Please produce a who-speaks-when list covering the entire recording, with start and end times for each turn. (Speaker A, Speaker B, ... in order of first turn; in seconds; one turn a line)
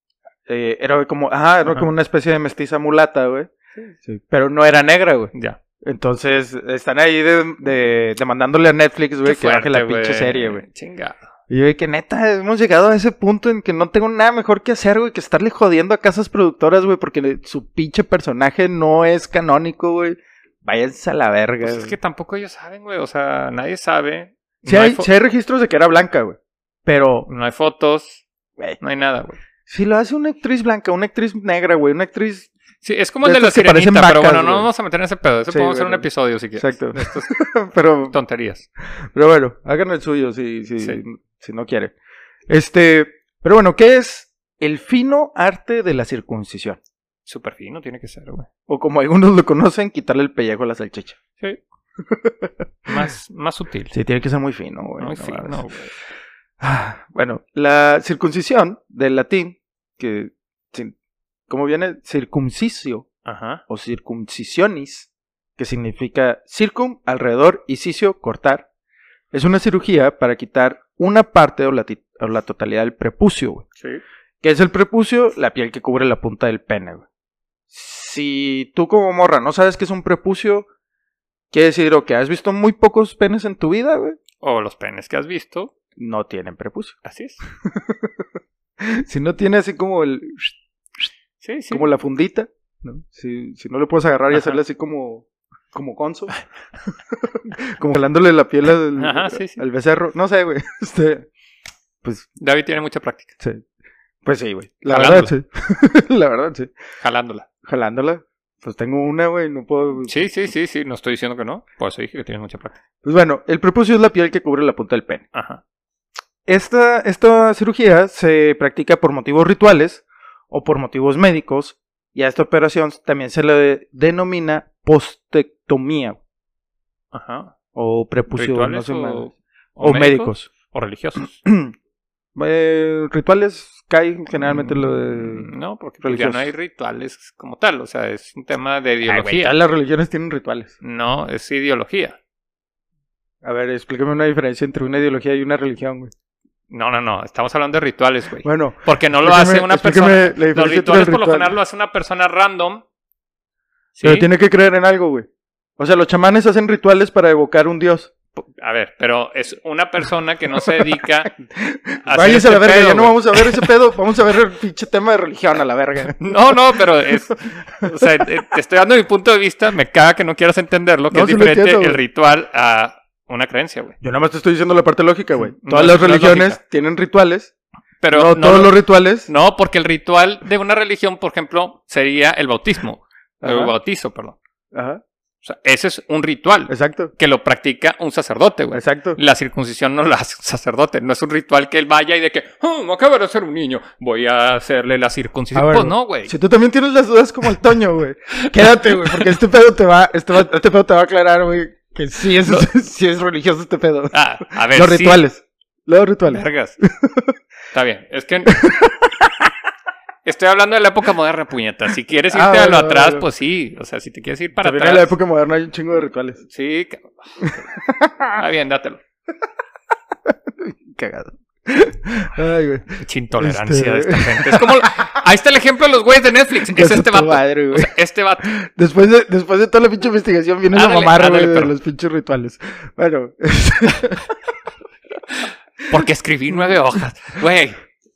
Speaker A: 0.5-3.5
Speaker A: 4.0-10.6
Speaker B: 9.2-11.2
Speaker A: 11.5-21.9
Speaker B: 21.6-25.1
Speaker A: 24.7-27.3
Speaker B: 27.3-28.2
Speaker B: 28.8-29.4
Speaker A: 29.6-32.5
Speaker B: 32.8-37.3
Speaker A: 33.2-34.7
Speaker A: 35.5-38.2
Speaker B: 38.1-38.7
Speaker A: 39.1-41.9
Speaker A: 42.5-46.8
Speaker B: 47.2-48.5
Speaker A: 48.7-51.2
Speaker A: 52.1-52.5
Speaker B: 52.9-53.9
Speaker A: 53.9-55.6
Speaker B: 55.0-55.9
Speaker A: 56.6-60.9
Speaker A: 61.5-63.1
Speaker B: 63.2-63.6
Speaker A: 63.7-68.7
Speaker A: 69.3-73.7
Speaker A: 74.4-77.0
Speaker A: 77.7-80.7
Speaker A: 81.5-84.2
Speaker B: 84.4-85.7
Speaker A: 86.0-87.0
Speaker B: 87.0-87.4
Speaker A: 87.7-88.1
Speaker A: 88.8-90.5
Speaker B: 91.4-91.8
Speaker A: 91.7-96.4
Speaker B: 94.3-94.6
Speaker A: 96.9-101.3
Speaker B: 99.0-99.6
Speaker A: 102.0-102.3
Speaker B: 102.4-103.3
Speaker A: 104.2-106.7
Speaker B: 104.9-105.3
Speaker B: 107.0-107.5
Speaker A: 107.6-110.2
Speaker B: 110.1-112.8
Speaker A: 113.0-115.2
Speaker B: 115.3-115.6
Speaker A: 116.5-126.2
Speaker B: 127.1-127.5
Speaker A: 127.7-129.3
Speaker B: 128.3-131.4
Speaker A: 129.8-130.5
Speaker A: 131.4-131.7
Speaker A: 132.3-135.5
Speaker B: 134.4-139.6
Speaker A: 136.0-136.5
Speaker A: 139.0-140.7
Speaker B: 140.8-142.2
Speaker A: 143.4-146.1
Speaker B: 146.7-152.8
Speaker A: 148.4-151.5
Speaker B: 153.9-154.3
Speaker A: 154.0-155.3
Speaker A: 155.8-158.1
Speaker B: 158.4-161.3
Speaker A: 161.5-167.9
Speaker B: 162.1-163.7
Speaker B: 166.1-173.9
Speaker A: 171.1-172.0
Speaker A: 174.0-177.5
Speaker B: 175.6-176.6
Speaker B: 178.0-184.4
Speaker A: 178.1-179.3
Speaker A: 183.4-183.7
Speaker A: 184.7-185.0
Speaker B: 185.4-196.3
Speaker A: 186.7-187.1
Speaker A: 188.7-189.2
Speaker A: 195.5-207.3
Speaker B: 198.6-199.3
Speaker B: 202.4-202.7
Speaker B: 204.1-205.2
Speaker B: 206.3-206.8
Speaker B: 207.7-208.6
Speaker A: 208.5-209.3
Speaker B: 210.2-215.1
Speaker A: 212.3-213.2
Speaker A: 214.6-216.4
Speaker B: 216.5-217.6
Speaker A: 217.4-218.4
Speaker B: 218.3-219.0
Speaker A: 220.6-225.1
Speaker B: 223.0-228.5
Speaker A: 226.7-234.3
Speaker B: 230.7-231.7
Speaker B: 235.9-237.8